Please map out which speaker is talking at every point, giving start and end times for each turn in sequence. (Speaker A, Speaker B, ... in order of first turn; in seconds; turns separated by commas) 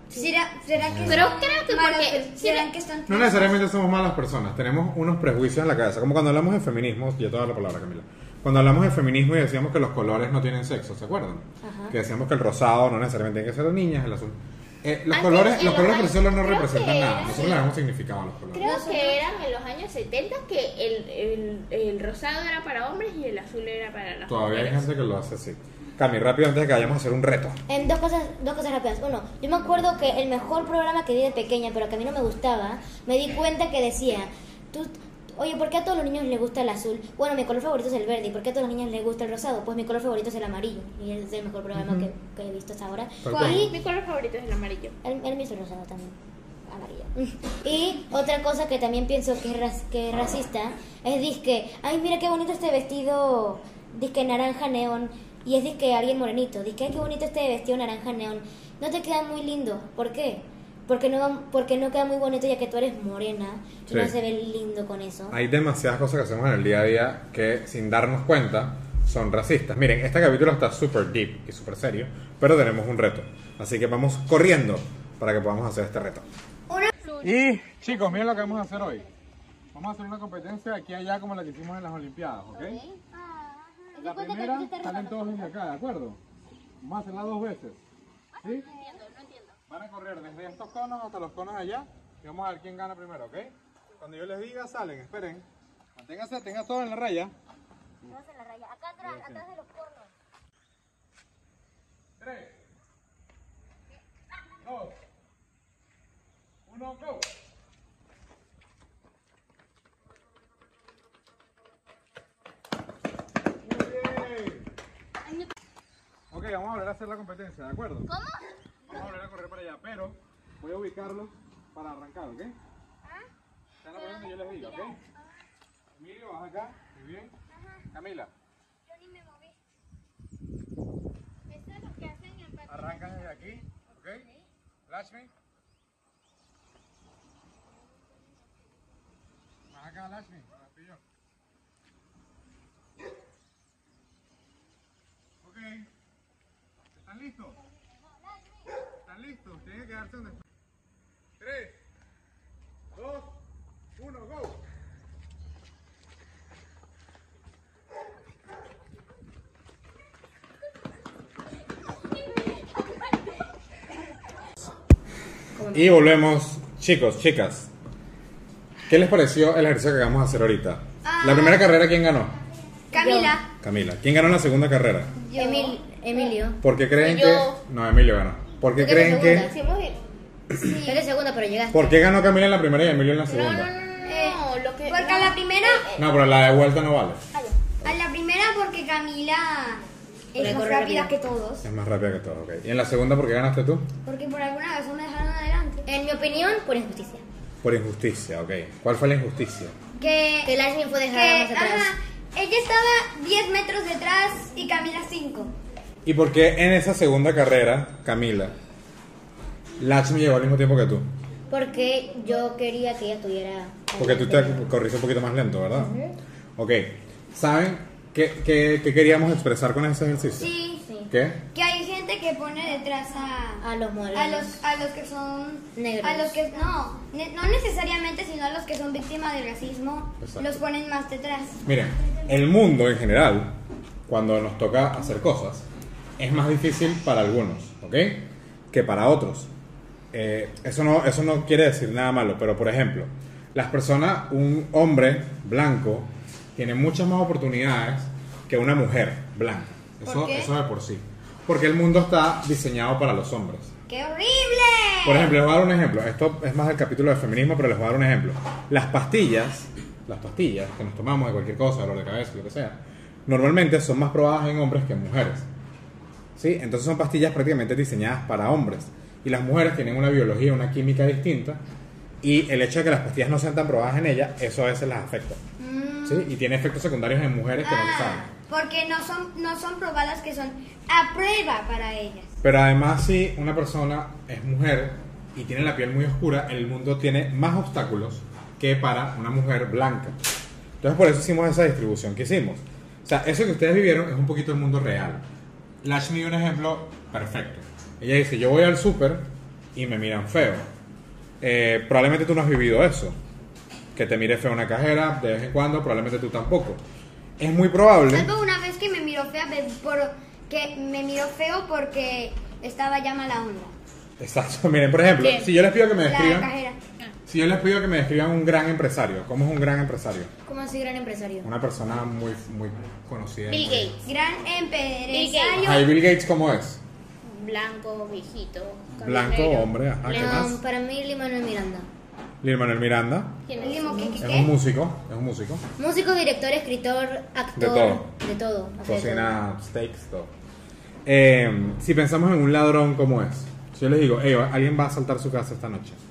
Speaker A: 0.1-3.6, Speaker B: 0.8-1.2, Speaker C: 1.1-2.7, Speaker B: 3.1-18.6, Speaker D: 11.6-12.0, Speaker C: 15.1-17.7, Speaker C: 18.5-24.9, Speaker A: 18.6-19.2, Speaker B: 24.3-27.6, Speaker D: 27.7-43.8, Speaker B: 41.7-42.1, Speaker B: 43.2-43.7, Speaker A: 43.3-43.6, Speaker C: 43.4-45.0, Speaker D: 45.0-65.4, Speaker B: 63.9-64.1, Speaker B: 65.3-76.3, Speaker B: 77.2-79.1, Speaker B: 79.7-82.8, Speaker C: 82.5-82.9, Speaker A: 83.1-83.9, Speaker D: 83.9-85.5, Speaker B: 84.0-86.2, Speaker B: 86.8-87.8, Speaker C: 88.3-89.6, Speaker B: 88.4-88.7, Speaker B: 89.7-97.3, Speaker D: 98.0-100.1, Speaker B: 99.0-99.5, Speaker B: 102.2-102.6, Speaker B: 104.6-105.0, Speaker B: 106.7-107.3, Speaker B: 113.6-114.7, Speaker B: 116.3-118.1, Speaker C: 118.1-118.5, Speaker B: 118.9-122.5, Speaker B: 123.8-125.0, Speaker B: 125.9-127.3, Speaker B: 127.9-128.3, Speaker A: 129.0-129.5, Speaker C: 131.5-132.7, Speaker B: 132.7-134.3, Speaker B: 134.9-135.3, Speaker B: 139.7-141.0, Speaker B: 145.4-145.9, Speaker B: 146.9-147.6, Speaker B: 148.9-150.4, Speaker B: 151.4-151.7, Speaker B: 152.9-153.4, Speaker B: 153.9-154.6, Speaker D: 165.5-166.0, Speaker B: 165.7-167.7, Speaker B: 168.9-172.3, Speaker A: 171.0-171.7, Speaker A: 172.9-173.5, Speaker D: 173.0-173.4, Speaker B: 173.6-175.2, Speaker A: 175.2-176.3, Speaker D: 175.3-176.6, Speaker B: 176.6-179.5, Speaker C: 177.0-177.6, Speaker D: 178.8-179.5, Speaker C: 179.1-180.0, Speaker A: 180.5-181.0, Speaker D: 180.8-181.9, Speaker B: 181.7-183.7, Speaker C: 183.3-186.1, Speaker A: 184.0-185.9, Speaker B: 185.9-187.2, Speaker A: 187.8-191.7, Speaker D: 190.3-191.1, Speaker B: 191.6-193.9, Speaker A: 194.0-195.9, Speaker D: 195.8-197.2, Speaker B: 197.6-199.8, Speaker A: 200.0-200.5, Speaker D: 200.4-201.9, Speaker A: 201.1-205.5, Speaker B: 206.0-208.6, Speaker B: 209.8-211.1, Speaker D: 211.5-214.7, Speaker B: 214.0-215.9, Speaker D: 215.7-216.2, Speaker B: 216.6-220.5, Speaker A: 220.4-220.9, Speaker B: 221.1-221.4, Speaker A: 221.5-231.6, Speaker D: 223.6-224.6, Speaker D: 225.7-226.4, Speaker B: 230.2-230.6, Speaker B: 231.7-233.6, Speaker B: 234.1-235.7, Speaker B: 236.2-239.5, Speaker B: 240.1-253.7, Speaker A: 250.0-250.5, Speaker A: 253.9-255.4, Speaker B: 255.0-265.5, Speaker B: 266.4-271.6, Speaker B: 272.2-275.4, Speaker A: 275.6-276.3, Speaker B: 276.1-278.3, Speaker A: 277.6-282.3, Speaker B: 282.4-290.1, Speaker B: 290.8-295.2, Speaker B: 295.8-300.6, Speaker B: 301.4-303.2, Speaker B: 303.9-306.8, Speaker B: 307.4-308.3, Speaker A: 308.1-313.7, Speaker B: 314.2-316.5, Speaker C: 315.2-315.5, Speaker A: 316.0-316.8, Speaker B: 317.3-320.3, Speaker D: 320.4-321.5, Speaker B: 321.4-324.0, Speaker C: 323.5-324.0, Speaker A: 324.0-325.9, Speaker C: 325.1-325.6, Speaker B: 325.6-326.8, Speaker C: 327.2-330.5, Speaker B: 329.0-330.6, Speaker D: 330.1-331.9, Speaker B: 332.4-333.5, Speaker C: 333.5-334.1, Speaker A: 333.6-334.5, Speaker D: 333.9-334.2, Speaker B: 334.2-335.6, Speaker D: 335.8-339.4, Speaker B: 337.6-338.1, Speaker B: 338.8-340.3, Speaker B: 341.1-346.0